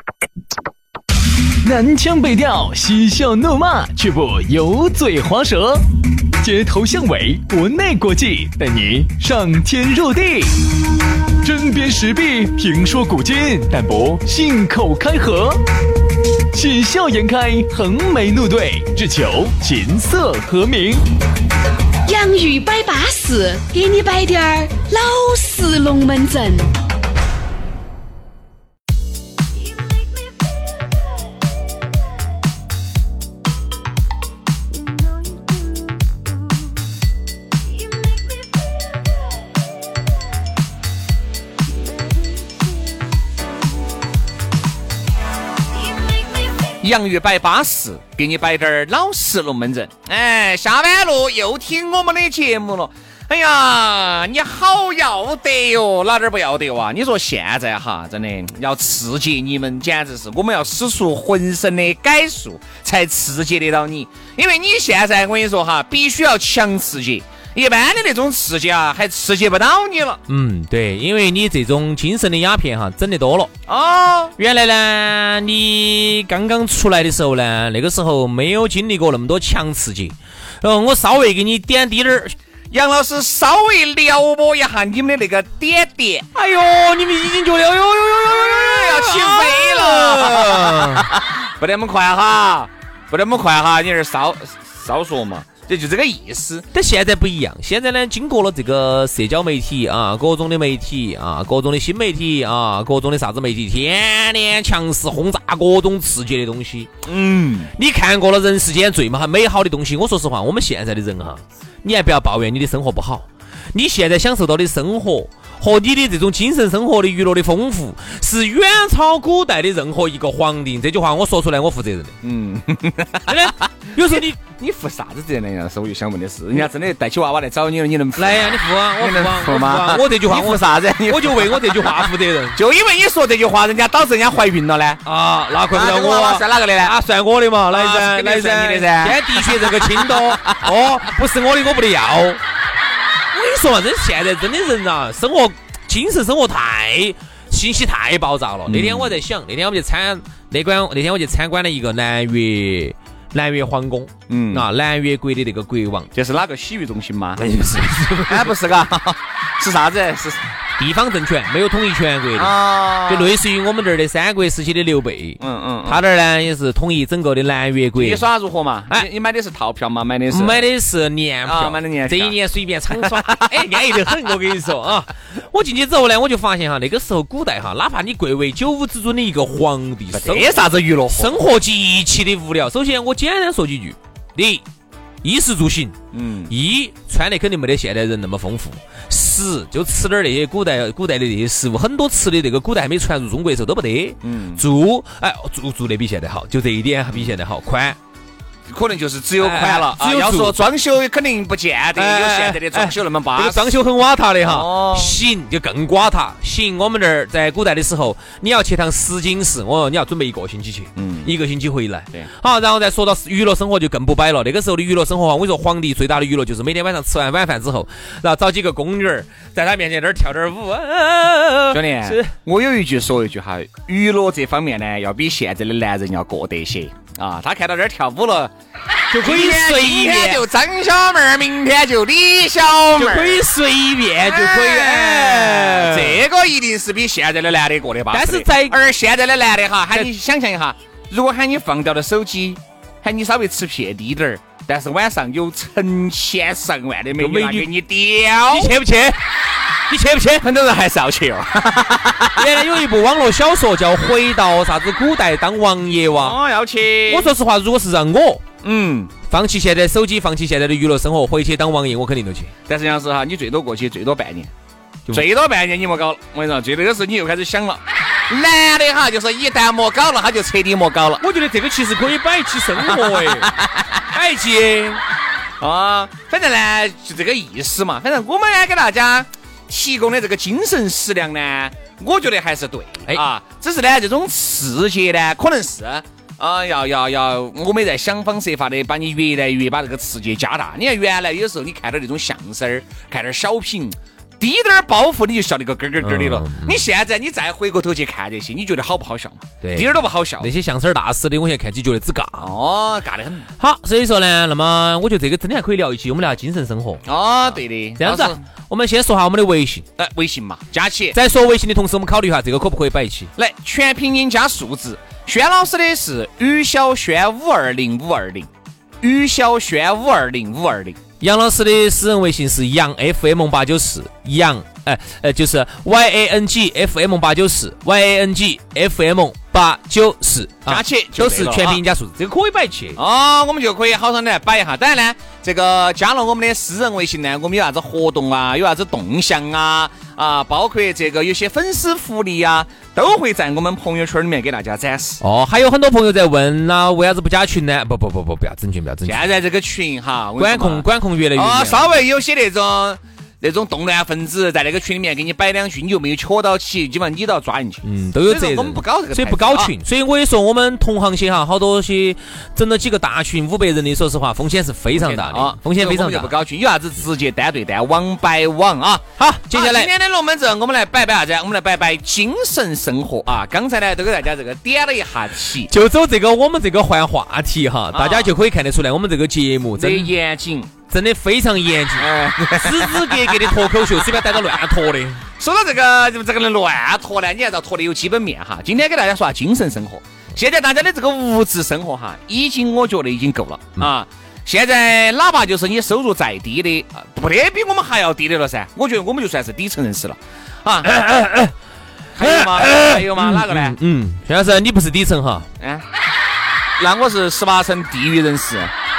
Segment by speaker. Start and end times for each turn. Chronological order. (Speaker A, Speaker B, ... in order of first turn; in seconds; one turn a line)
Speaker A: 1.6-5.9
Speaker A: 6.4-10.6
Speaker A: 11.4-15.6
Speaker A: 16.5-21.0
Speaker B: 22.1-26.7
Speaker C: 46.8-70.2
Speaker D: 70.3-73.5
Speaker C: 73.7-74.3
Speaker D: 74.4-82.4
Speaker C: 82.7-86.3
Speaker D: 86.3-91.1
Speaker C: 88.2-96.7
Speaker D: 96.7-106.9
Speaker C: 107.1-107.7
Speaker D: 107.7-122.2
Speaker C: 122.2-135.0
Speaker D: 123.3-124.4
Speaker D: 128.2-132.6
Speaker D: 135.1-142.4
Speaker C: 135.7-137.0
Speaker C: 137.7-140.7
Speaker D: 143.3-156.1
Speaker C: 148.7-149.2
Speaker C: 154.3-154.7
Speaker C: 156.1-157.4
Speaker D: 157.4-158.5
Speaker C: 158.3-160.5
Speaker D: 160.8-168.2
Speaker C: 162.3-163.3
Speaker C: 165.4-166.0
Speaker C: 168.0-170.7
Speaker D: 170.3-184.6
Speaker C: 171.5-172.4
Speaker C: 172.9-174.3
Speaker C: 180.1-181.3
Speaker D: 185.2-186.0
Speaker C: 186.1-186.5
Speaker D: 186.5-198.0
Speaker C: 194.2-194.6
Speaker C: 198.7-203.7
Speaker D: 199.4-200.6
Speaker D: 202.0-222.3
Speaker C: 204.4-205.2
Speaker C: 211.0-211.3
Speaker C: 221.7-228.5
Speaker D: 229.1-230.4
Speaker C: 229.1-233.4
Speaker D: 232.9-236.2
Speaker C: 234.2-248.8
Speaker D: 238.1-238.8
Speaker D: 247.2-247.7
Speaker D: 248.5-249.2
Speaker D: 249.9-250.5
Speaker C: 250.4-252.5
Speaker D: 252.3-256.4
Speaker C: 256.2-257.3
Speaker D: 257.1-258.4
Speaker C: 258.6-259.1
Speaker D: 259.3-262.5
Speaker C: 262.7-264.5
Speaker C: 265.1-271.2
Speaker D: 271.2-273.6
Speaker C: 272.8-274.0
Speaker D: 274.1-275.0
Speaker C: 275.6-300.5
Speaker D: 296.0-296.8
Speaker D: 299.6-302.5
Speaker C: 302.4-303.5
Speaker D: 303.6-307.1
Speaker C: 307.1-308.4
Speaker D: 308.0-309.9
Speaker C: 310.0-311.2
Speaker D: 311.1-313.3
Speaker C: 313.4-318.5
Speaker C: 319.0-321.0
Speaker D: 321.2-333.0
Speaker C: 330.7-331.8
Speaker C: 333.0-345.2
Speaker D: 345.2-349.2
Speaker C: 349.0-359.8
Speaker D: 350.4-351.9
Speaker D: 357.8-366.4
Speaker C: 364.9-375.7
Speaker D: 369.2-369.9
Speaker D: 375.7-380.1
Speaker C: 377.9-378.3
Speaker C: 379.8-380.7
Speaker D: 380.9-385.2
Speaker C: 382.0-384.4
Speaker C: 385.4-401.0
Speaker D: 400.8-401.5
Speaker C: 402.1-403.8
Speaker D: 402.2-405.5
Speaker C: 405.6-405.9
Speaker C: 406.8-408.7